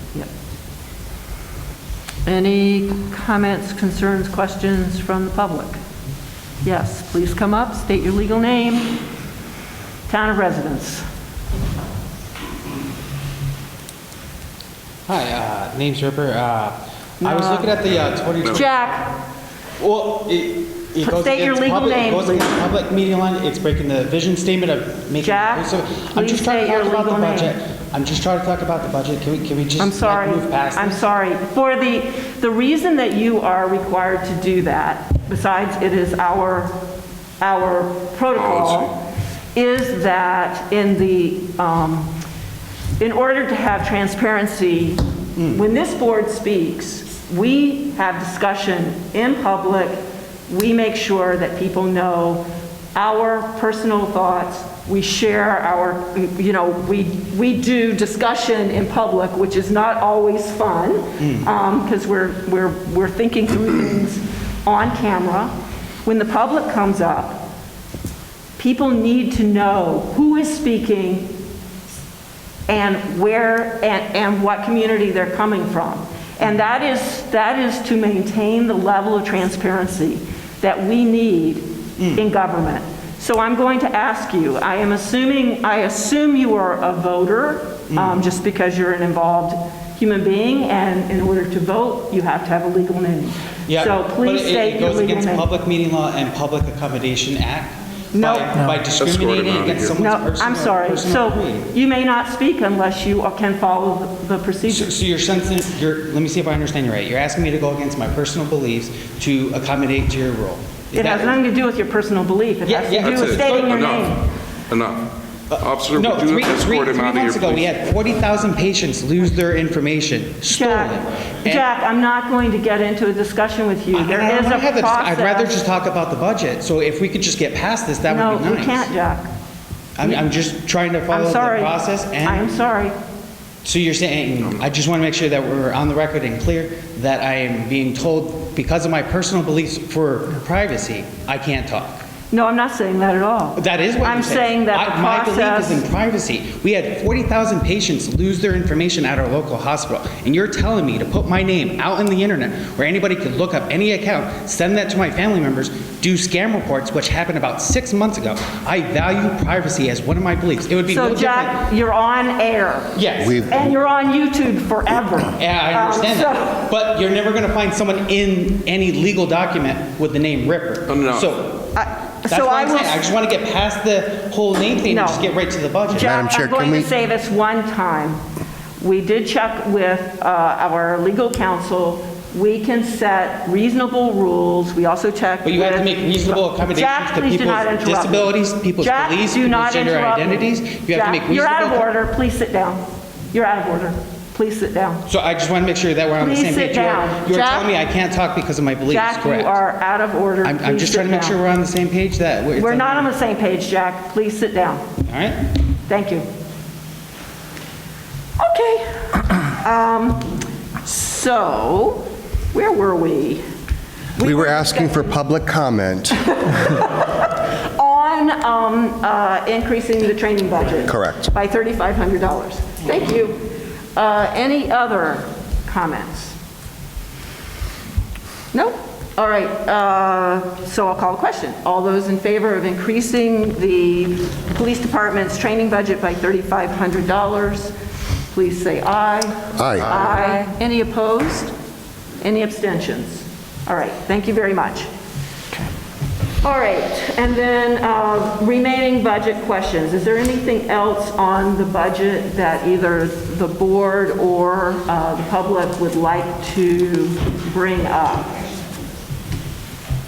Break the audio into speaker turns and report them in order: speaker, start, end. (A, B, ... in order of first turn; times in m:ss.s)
0:02.2-0:05.8 A
0:06.6-0:09.0 A
0:10.1-0:11.0 A
0:15.1-0:19.0 B
0:17.2-0:17.8 A
0:18.5-0:19.1 A
0:19.8-0:31.1 B
0:21.0-0:22.6 A
0:25.2-0:27.6 A
0:29.8-0:36.7 A
0:37.4-0:39.0 A
0:38.4-0:38.9 C
0:39.5-0:42.1 A
0:43.0-1:05.5 A
1:06.0-1:07.4 A
1:08.6-1:11.3 A
1:12.7-1:35.5 A
1:27.9-1:28.2 B
1:33.7-1:41.7 B
1:38.1-1:38.6 A
1:38.8-1:40.0 C
1:39.9-1:44.9 A
1:44.7-1:51.4 B
1:50.9-1:54.2 A
1:52.6-1:53.8 B
1:53.0-1:54.1 C
1:54.7-1:55.1 C
1:55.5-2:01.6 B
1:55.6-1:57.8 C
2:00.5-2:05.5 A
2:03.9-2:08.9 B
2:08.1-2:09.3 A
2:10.0-2:12.4 B
2:10.0-2:10.3 A
2:11.1-2:12.9 A
2:13.6-2:22.0 B
2:22.3-2:25.8 A
2:23.6-2:41.6 B
2:40.9-2:46.6 A
2:43.0-2:43.4 B
2:43.2-2:43.7 D
2:45.4-2:56.1 B
2:50.9-2:51.3 C
2:51.7-2:53.1 A
2:54.8-2:55.2 A
2:55.9-2:58.2 A
2:56.0-2:56.9 D
2:58.8-3:15.0 A
3:05.4-3:11.9 B
3:15.1-3:19.6 B
3:16.2-3:17.7 A
3:18.9-3:21.4 A
3:20.4-3:23.1 B
3:22.6-3:24.8 A
3:25.0-3:25.4 B
3:25.9-3:26.2 A
3:28.4-3:33.4 A
3:34.1-3:35.2 A
3:34.2-3:36.3 D
3:36.3-3:43.4 A
3:40.9-3:41.2 D
3:43.9-3:46.4 A
3:48.5-3:57.7 A
3:58.3-4:01.5 A
3:59.6-4:00.0 D
4:02.2-4:04.9 A
4:06.4-4:18.3 A